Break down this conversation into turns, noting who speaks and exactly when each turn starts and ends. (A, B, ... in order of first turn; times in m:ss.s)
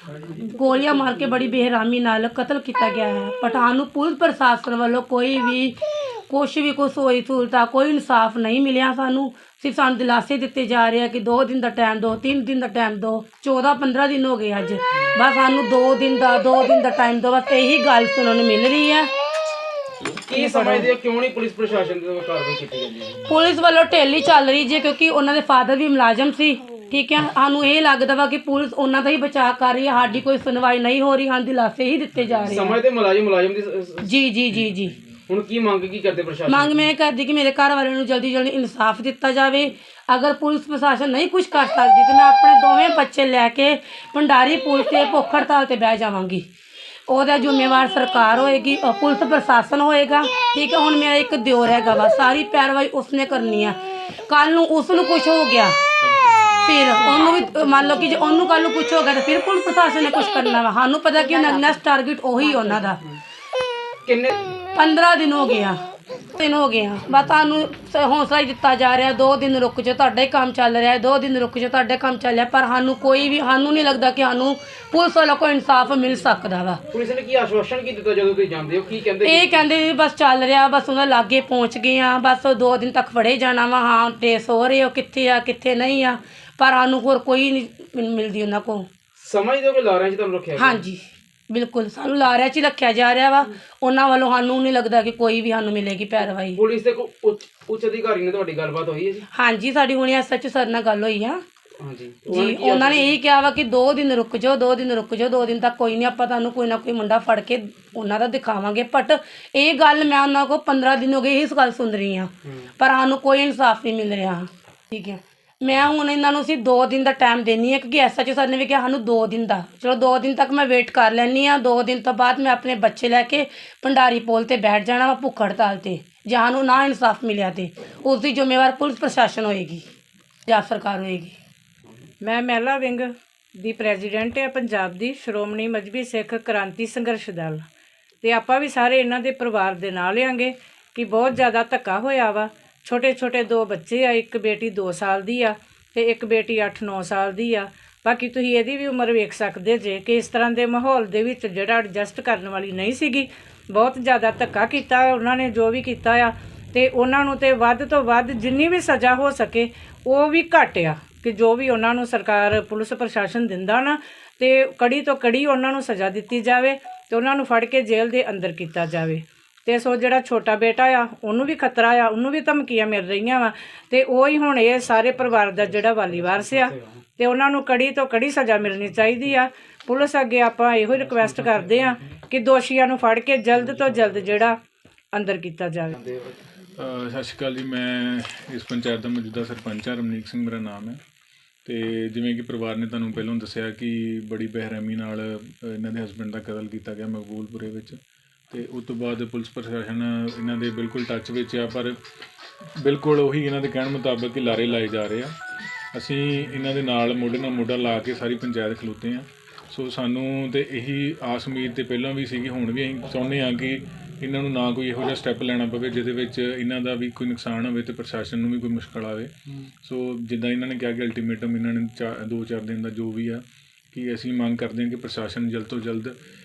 0:00.2-0:19.1 A
0:20.2-0:23.2 B
0:20.3-0:20.9 A
0:23.3-0:32.8 A
0:32.5-0:34.1 B
0:34.0-0:35.0 A
0:35.3-0:36.8 B
0:36.5-0:46.5 A
0:47.1-0:55.8 A
0:56.2-0:56.6 C
0:56.6-1:03.0 A
1:02.5-1:03.2 B
1:04.1-1:04.5 B
1:04.7-1:16.8 A
1:16.9-1:19.5 B
1:19.2-1:28.9 A
1:29.2-1:30.8 B
1:30.6-1:36.6 A
1:36.6-1:39.3 B
1:39.3-1:41.4 A
1:41.8-1:43.2 B
1:42.3-2:09.9 A
2:10.5-2:11.4 A
2:12.2-2:17.6 D
2:18.2-3:04.6 D
2:55.5-2:57.0 B
3:00.9-3:02.2 B
3:03.6-3:04.5 B
3:05.1-3:06.0 D
3:05.9-3:06.4 B
3:06.7-3:11.0 C
3:11.6-3:18.0 C
3:18.5-3:22.0 C
3:22.8-3:25.4 C
3:25.9-3:39.3 C
3:39.8-3:46.2 C